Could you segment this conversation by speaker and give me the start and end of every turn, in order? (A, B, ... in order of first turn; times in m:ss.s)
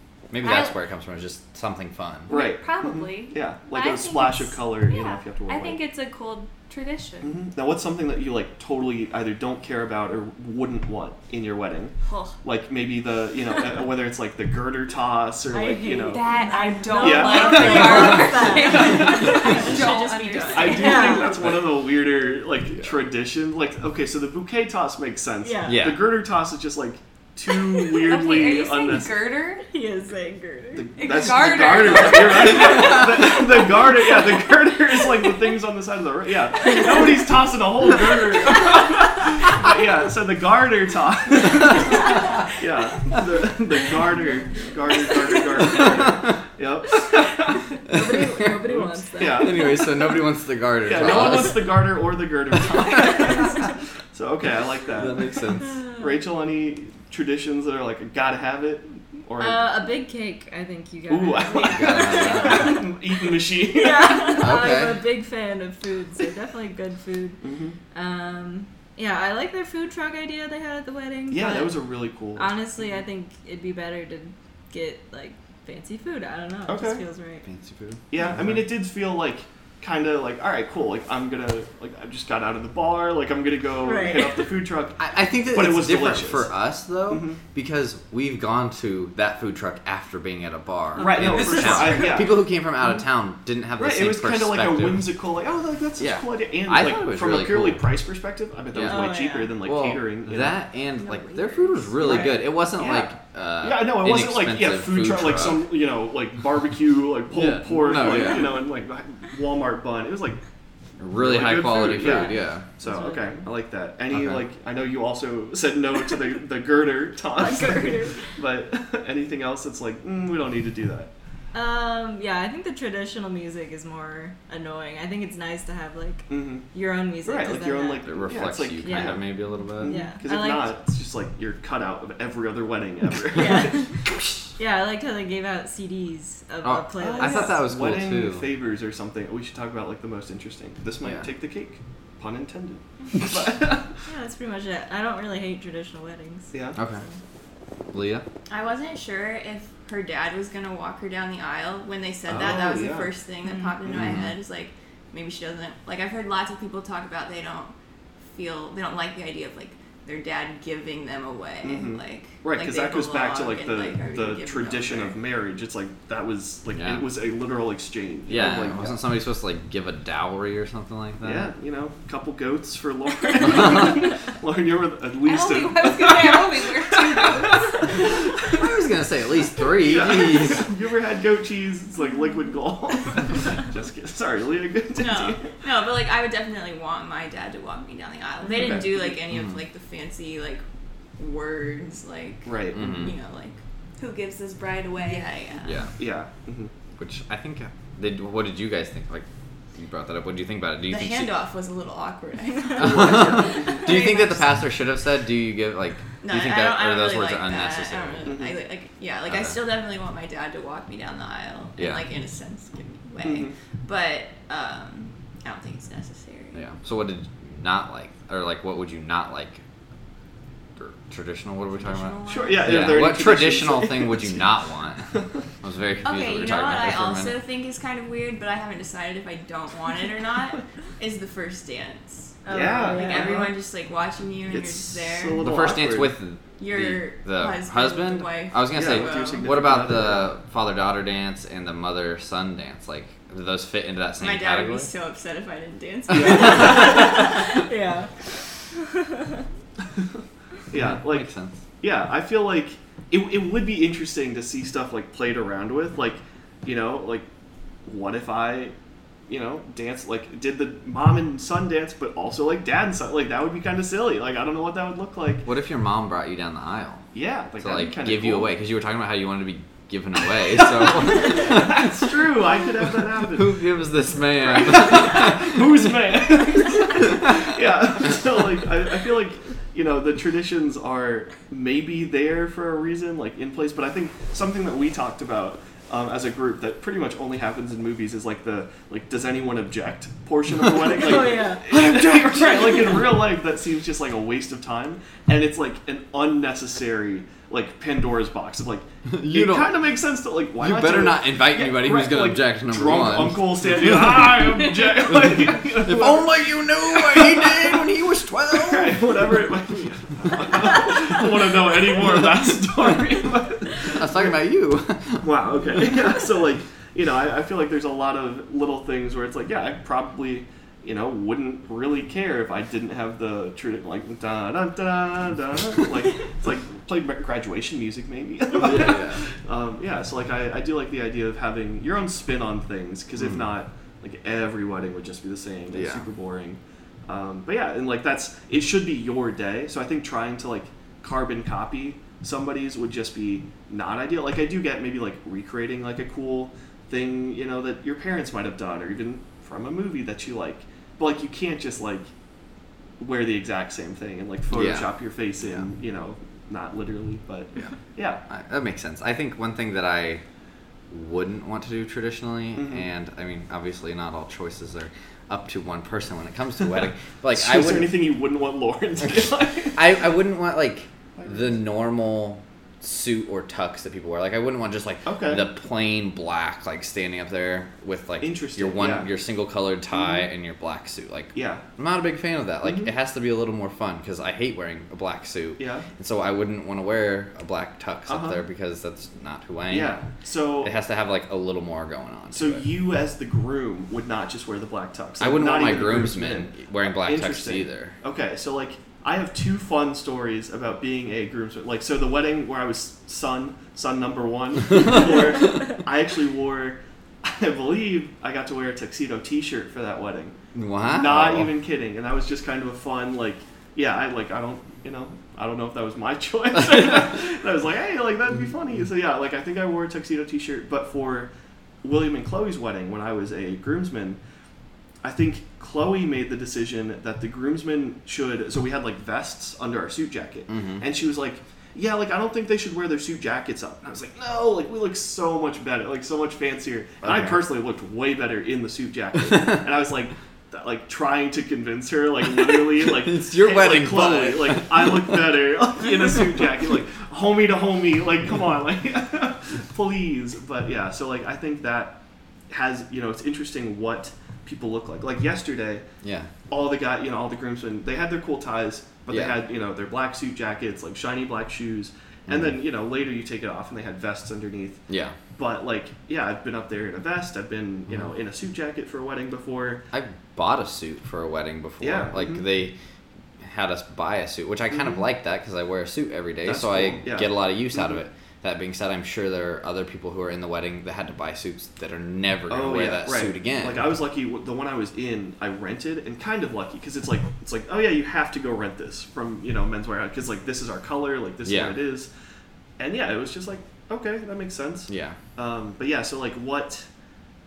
0:00.3-0:02.3 A
0:00.4-0:00.8 B
0:02.3-0:05.8 C
0:02.3-0:07.3 B
0:07.2-0:16.2 C
0:12.0-0:12.4 B
0:15.5-0:21.4 D
0:16.1-0:21.4 B
0:17.0-0:19.8 C
0:19.2-0:20.8 E
0:20.5-0:29.1 C
0:25.4-0:25.9 D
0:25.6-0:26.0 A
0:27.9-0:29.6 B
0:29.7-0:31.2 D
0:30.7-0:47.6 C
0:31.0-0:33.2 B
0:32.4-0:33.4 D
0:47.8-0:50.0 D
0:47.9-0:48.6 A
0:48.6-0:50.1 C
0:49.2-0:51.8 A
0:50.8-0:59.8 C
0:55.0-0:55.8 A
0:55.6-0:56.1 D
0:59.4-1:02.9 D
1:01.1-1:04.6 C
1:01.6-1:02.7 B
1:01.7-1:02.8 A
1:03.5-1:07.4 D
1:04.4-1:05.0 A
1:07.4-1:07.8 C
1:07.9-1:11.8 D
1:11.3-1:12.9 C
1:12.4-1:17.5 D
1:16.7-1:17.0 C
1:17.4-1:18.6 A
1:18.1-1:26.5 C
1:23.8-1:24.6 D
1:25.0-1:35.1 A
1:27.1-1:27.4 C
1:31.0-1:32.0 D
1:31.0-1:32.4 C
1:33.8-1:40.6 C
1:36.0-1:37.9 A
1:38.7-1:39.1 A
1:38.8-1:39.6 D
1:39.6-1:45.7 A
1:41.1-1:41.4 B
1:42.0-1:50.4 C
1:47.3-1:48.6 A
1:51.0-1:52.7 A
1:51.2-2:01.1 C
1:52.0-1:53.5 D
1:54.1-1:54.4 A
1:57.4-1:58.3 D
2:01.5-2:10.8 D
2:06.3-2:06.7 C
2:07.2-2:13.9 C
2:08.0-2:10.0 A
2:13.3-2:14.0 D
2:14.6-2:17.7 D
2:16.6-2:18.5 A
2:17.0-2:24.0 C
2:24.1-2:27.2 D
2:26.5-2:26.8 C
2:26.8-2:27.0 A
2:27.9-2:28.3 A
2:28.5-2:37.7 E
2:32.3-2:33.1 C
2:33.5-2:33.8 D
2:33.9-2:34.2 C
2:33.9-2:34.4 A
2:38.3-2:45.2 E
2:41.6-2:49.0 C
2:46.7-2:47.1 A
2:48.3-2:51.5 A
2:51.2-2:58.0 C
2:55.3-2:58.1 B
2:58.4-3:00.7 A
2:59.8-3:05.6 C
3:05.0-3:10.6 E
3:08.5-3:09.2 C
3:09.3-3:09.6 A
3:11.2-3:13.6 E
3:12.4-3:13.1 C
3:12.8-3:13.1 A
3:14.0-3:15.3 B
3:15.0-3:15.9 E
3:15.6-3:15.9 A
3:16.0-3:16.7 C
3:17.0-3:21.3 A
3:20.9-3:24.6 E
3:22.8-3:24.0 C
3:22.8-3:28.3 A
3:26.2-3:36.6 E
3:28.3-3:28.6 C
3:29.3-3:29.6 A
3:31.8-3:32.0 A
3:33.2-3:33.5 C
3:36.5-3:39.6 A
3:40.8-3:47.4 A
3:41.8-3:43.1 E
3:42.3-3:44.5 C
3:45.1-3:45.4 C
3:46.0-3:55.4 E
3:52.4-3:53.5 D
3:52.5-3:53.5 C
3:54.5-3:56.1 C
3:55.4-4:04.9 A
3:56.6-3:59.6 E
3:58.7-4:00.3 C
4:04.2-4:07.5 E
4:06.1-4:07.0 C
4:06.2-4:06.7 A
4:06.7-4:08.1 D
4:08.7-4:09.5 D
4:10.7-4:11.3 C
4:10.7-4:11.6 A
4:11.8-4:17.3 C
4:17.9-4:18.8 C
4:19.3-4:25.5 C
4:25.4-4:27.1 A
4:27.1-4:28.5 C
4:27.6-4:32.1 A
4:30.6-4:33.6 C
4:33.2-4:35.6 A
4:34.4-5:07.9 C
4:50.7-4:53.0 D
4:59.1-4:59.8 A
5:00.6-5:09.3 A
5:08.5-5:14.4 C
5:13.9-5:16.1 A
5:15.2-5:52.1 C
5:28.6-5:29.2 A
5:33.2-5:33.5 A
5:35.7-5:36.0 A
5:53.0-5:58.2 C
5:54.5-5:55.7 A
5:58.3-6:00.2 A
6:00.9-6:07.9 A
6:02.6-6:02.9 C
6:07.3-6:09.9 C
6:09.8-6:30.0 A
6:11.2-6:11.6 C
6:15.0-6:15.5 C
6:18.2-6:19.1 C
6:19.9-6:20.2 C
6:21.3-6:21.6 C
6:22.6-6:22.9 C
6:25.6-6:25.9 C
6:28.1-6:28.4 C
6:29.7-6:30.7 C
6:30.6-6:32.7 A
6:32.3-7:01.3 C
6:35.2-6:38.0 A
6:50.5-6:51.5 A
7:01.8-7:04.2 C
7:05.0-7:32.0 C
7:10.5-7:10.8 A
7:17.0-7:17.4 A
7:22.4-7:25.2 A
7:32.5-7:35.9 C
7:36.0-7:36.3 A
7:36.5-7:44.8 C
7:39.1-7:39.4 A
7:42.3-7:42.6 A
7:44.9-7:45.2 A
7:45.4-7:49.8 C
7:49.9-7:52.8 A
7:51.8-7:52.4 C
7:53.4-8:03.9 A
7:54.7-7:55.0 C
7:56.4-7:58.0 C
8:02.5-8:12.1 C
8:11.4-8:11.8 A
8:12.8-8:16.9 C
8:14.9-8:15.2 A